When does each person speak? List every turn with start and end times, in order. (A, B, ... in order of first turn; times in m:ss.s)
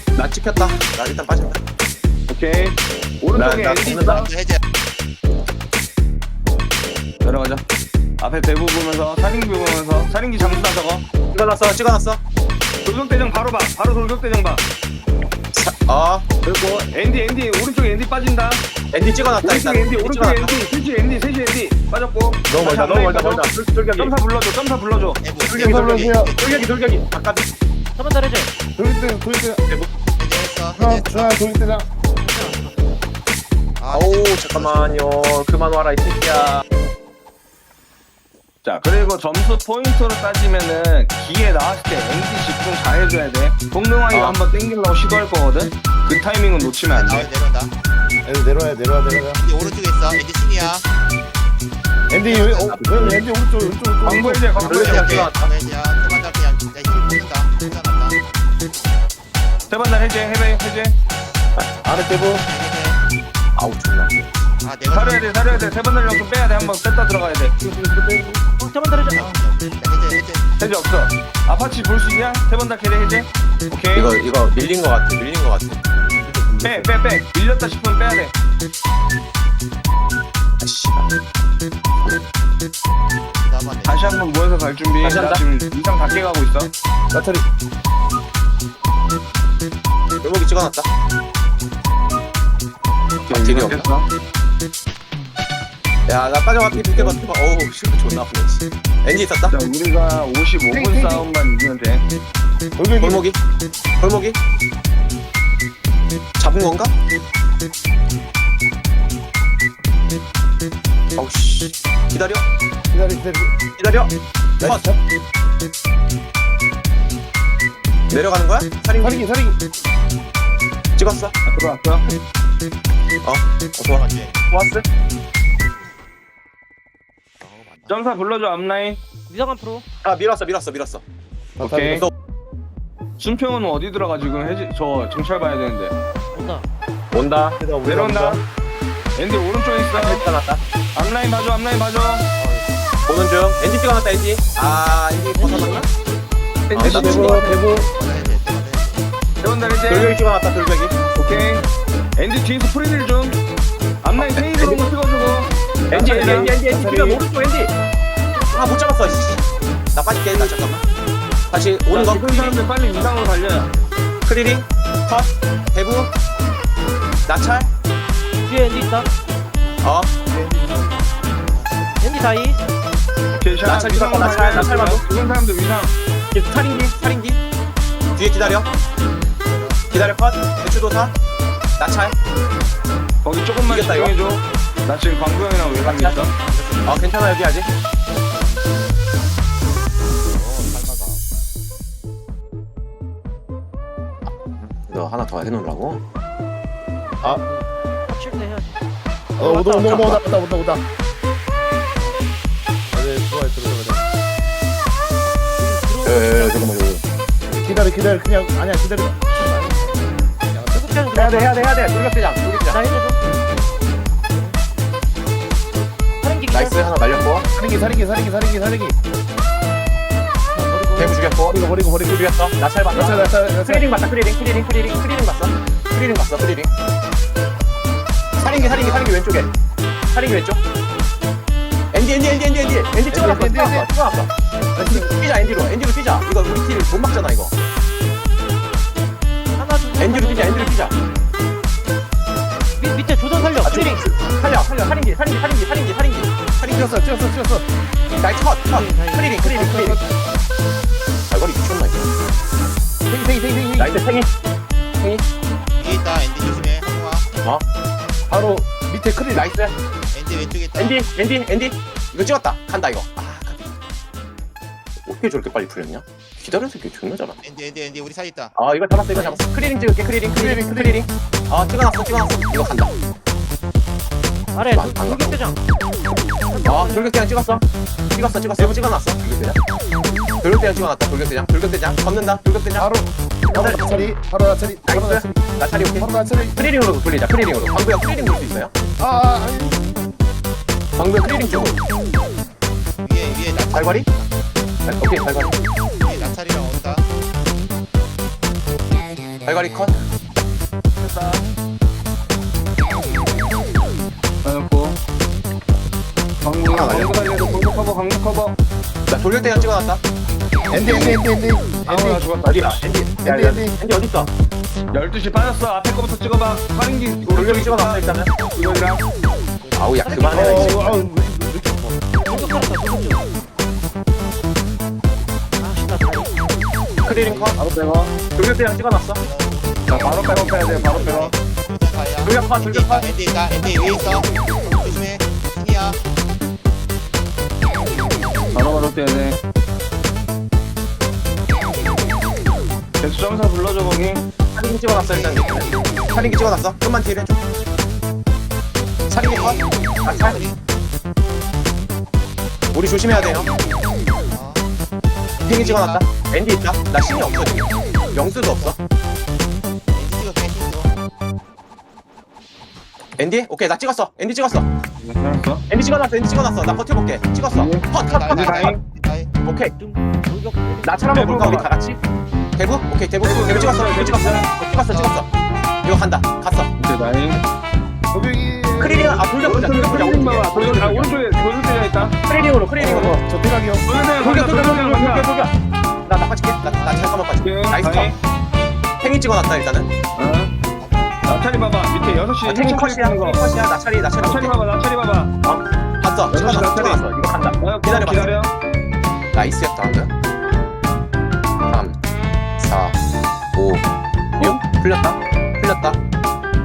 0:00.2-0:01.6 A
0:02.3-0:04.3 B
0:03.3-0:04.3 A
0:04.1-0:04.6 C
0:07.2-0:07.6 B
0:08.2-0:11.0 B
0:11.3-0:12.2 A
0:12.8-0:14.6 B
0:15.6-0:16.3 A
0:16.4-0:18.6 B
0:18.9-0:20.6 A
0:19.4-0:25.2 B
0:22.5-0:22.9 D
0:22.6-0:24.1 A
0:25.2-0:26.7 C
0:25.5-0:27.5 A
0:25.6-0:26.3 D
0:28.0-0:28.6 E
0:28.8-0:29.6 D
0:30.2-0:31.4 C
0:30.8-0:31.9 D
0:32.1-0:32.8 E
0:33.8-0:35.0 C
0:33.9-0:36.6 A
0:38.6-0:47.3 B
0:44.1-0:44.4 A
0:46.9-0:47.7 C
0:48.2-0:49.4 D
0:49.2-0:50.9 C
0:52.1-0:54.9 D
0:52.2-0:52.8 C
0:52.4-0:53.2 A
0:54.0-0:55.3 B
0:54.6-0:55.5 A
0:54.6-0:58.2 C
0:59.7-1:01.0 B
1:01.6-1:02.4 A
1:02.3-1:03.0 C
1:03.6-1:04.3 A
1:04.6-1:05.4 C
1:04.9-1:07.6 B
1:07.6-1:08.4 D
1:08.4-1:09.4 E
1:09.1-1:10.5 C
1:10.6-1:14.1 B
1:13.9-1:15.8 A
1:16.2-1:16.9 D
1:16.6-1:18.3 B
1:20.6-1:21.1 A
1:23.4-1:24.2 C
1:23.9-1:26.7 B
1:25.0-1:25.4 A
1:27.1-1:27.4 D
1:30.2-1:30.9 A
1:33.2-1:34.1 B
1:33.3-1:33.9 A
1:36.1-1:39.6 A
1:39.5-1:42.0 B
1:40.7-1:41.2 D
1:42.8-1:43.2 D
1:43.0-1:43.4 A
1:44.0-1:44.4 A
1:46.4-1:46.9 A
1:51.2-1:52.4 A
1:52.9-1:53.6 D
1:53.8-1:54.9 A
1:54.6-1:55.0 D
1:58.1-1:59.2 A
1:59.0-1:59.6 D
2:01.0-2:01.3 A
2:01.5-2:02.0 B
2:03.2-2:04.8 A
2:03.9-2:04.4 C
2:07.4-2:08.0 C
2:07.9-2:09.0 B
2:09.3-2:09.8 E
2:10.0-2:11.0 A
2:11.6-2:12.0 D
2:11.6-2:12.1 B
2:13.2-2:16.0 B
2:16.3-2:16.7 E
2:17.1-2:17.6 A
2:17.6-2:18.4 D
2:17.8-2:18.4 B
2:19.1-2:20.2 B
2:19.9-2:20.6 A
2:21.0-2:22.2 B
2:22.4-2:23.0 C
2:23.1-2:25.9 A
2:25.4-2:25.8 E
2:26.7-2:27.6 A
2:26.8-2:27.9 D
2:26.9-2:27.2 B
2:27.1-2:29.1 C
2:29.4-2:30.1 B
2:29.9-2:31.0 A
2:31.1-2:31.6 B
2:32.2-2:33.4 B
2:34.0-2:36.5 B
2:34.2-2:34.8 A
2:35.9-2:37.7 A
2:36.3-2:37.2 D
2:38.5-2:40.8 A
2:41.5-2:42.6 A
2:41.9-2:43.7 B
2:44.2-2:46.1 A
2:47.3-2:47.7 A
2:48.4-2:49.1 E
2:49.8-2:50.1 A
2:50.3-2:51.0 D
2:51.5-2:52.3 C
2:52.0-2:52.6 E
2:53.4-2:55.9 B
2:53.6-2:55.0 A
2:56.3-2:57.4 A
2:58.2-2:58.7 A
2:59.4-3:00.1 C
2:59.9-3:01.1 A
3:01.8-3:02.2 A
3:03.2-3:06.3 B
3:03.7-3:04.2 A
3:05.8-3:06.2 A
3:06.2-3:07.2 C
3:06.9-3:07.7 A
3:08.4-3:09.0 C
3:10.1-3:11.2 C
3:14.3-3:16.0 A
3:17.2-3:18.8 E
3:19.4-3:20.8 D
3:19.4-3:19.7 E
3:19.4-3:20.2 A
3:22.9-3:24.0 D
3:25.6-3:26.7 E
3:26.0-3:27.0 A
3:27.5-3:31.0 D
3:29.4-3:29.7 E
3:30.7-3:31.5 E
3:31.1-3:32.9 A
3:32.7-3:33.2 E
3:36.2-3:36.8 E
3:36.5-3:37.5 A
3:37.6-3:39.0 D
3:40.5-3:41.1 E
3:41.0-3:46.7 A
3:41.5-3:42.2 D
3:42.9-3:43.8 D
3:48.4-3:48.9 C
3:48.4-3:49.5 A
3:48.7-3:49.1 D
3:50.1-3:50.6 A
3:51.9-3:57.5 A
3:53.1-3:53.9 D
3:54.8-3:55.2 D
3:59.6-4:00.8 E
4:00.0-4:01.0 A
4:02.8-4:04.0 E
4:03.6-4:04.7 C
4:03.6-4:07.0 A
4:06.7-4:07.6 D
4:08.2-4:10.0 A
4:08.7-4:10.1 E
4:11.3-4:12.1 A
4:13.1-4:14.0 D
4:13.8-4:14.3 A
4:15.0-4:15.2 A
4:15.8-4:17.3 C
4:18.3-4:19.5 D
4:19.3-4:19.7 A
4:20.1-4:21.0 C
4:20.8-4:23.7 A
4:25.0-4:27.4 A
4:27.4-4:28.6 C
4:28.6-4:32.9 A
4:29.1-4:29.4 C
4:30.4-4:31.0 D
4:34.6-4:35.6 E
4:34.7-4:35.4 A
4:36.5-4:37.2 E
4:36.6-4:39.6 A
4:40.4-4:42.9 A
4:42.8-4:46.6 D
4:43.5-4:44.1 A
4:44.8-4:48.7 A
4:49.0-4:50.0 D
4:51.0-4:51.8 A
4:53.0-4:54.3 C
4:53.7-4:54.1 A
4:54.9-4:55.7 A
4:55.9-4:57.1 C
4:59.5-5:00.1 A
5:01.0-5:01.4 B
5:04.4-5:05.0 B
5:06.4-5:08.6 B
5:06.7-5:07.8 A
5:09.1-5:10.0 A
5:10.7-5:12.2 D
5:10.7-5:11.2 B
5:11.9-5:12.8 B
5:12.4-5:14.3 A
5:13.2-5:13.8 D
5:14.9-5:18.0 B
5:17.3-5:18.3 A
5:18.5-5:19.0 B
5:19.8-5:21.0 A
5:20.0-5:20.7 E
5:20.2-5:22.2 D
5:22.2-5:23.3 E
5:25.6-5:26.6 E
5:27.0-5:27.6 A
5:27.2-5:27.5 D
5:27.6-5:28.1 B
5:28.4-5:29.2 A
5:29.2-5:36.0 C
5:29.9-5:31.3 B
5:32.2-5:33.1 A
5:38.1-5:38.8 C
5:38.5-5:39.4 B
5:43.0-5:44.2 B
5:44.5-5:47.4 A
5:45.0-5:46.6 C
5:49.1-5:50.4 A
5:49.2-5:50.6 C
5:52.7-5:53.5 A
5:54.2-5:54.6 C
5:55.3-5:56.1 C
5:55.5-5:58.8 A
5:58.2-5:58.8 C
5:59.9-6:00.9 C
6:03.2-6:04.7 A
6:05.0-6:05.6 B
6:05.7-6:08.7 A
6:07.5-6:08.8 B
6:07.9-6:09.3 C
6:09.4-6:09.7 A
6:09.7-6:11.3 E
6:10.8-6:12.0 A
6:11.1-6:11.7 B
6:12.6-6:15.3 A
6:13.2-6:14.5 B
6:13.8-6:15.2 C
6:15.8-6:16.7 A
6:16.8-6:17.4 B
6:18.1-6:19.6 D
6:18.8-6:21.1 A
6:19.4-6:22.1 B
6:22.2-6:23.2 A
6:22.8-6:23.8 D
6:23.8-6:25.3 B
6:24.2-6:25.5 A
6:26.0-6:28.1 A
6:26.7-6:27.2 C
6:27.4-6:28.1 B
6:29.0-6:29.9 A
6:30.2-6:30.5 B
6:30.8-6:31.2 C
6:31.2-6:33.4 B
6:32.4-6:34.5 A
6:34.2-6:35.3 B
6:35.4-6:38.3 A
6:36.3-6:38.5 B
6:39.3-6:40.1 A
6:41.7-6:42.0 A
6:42.6-6:43.0 A
6:43.6-6:43.9 A
6:44.4-6:46.0 A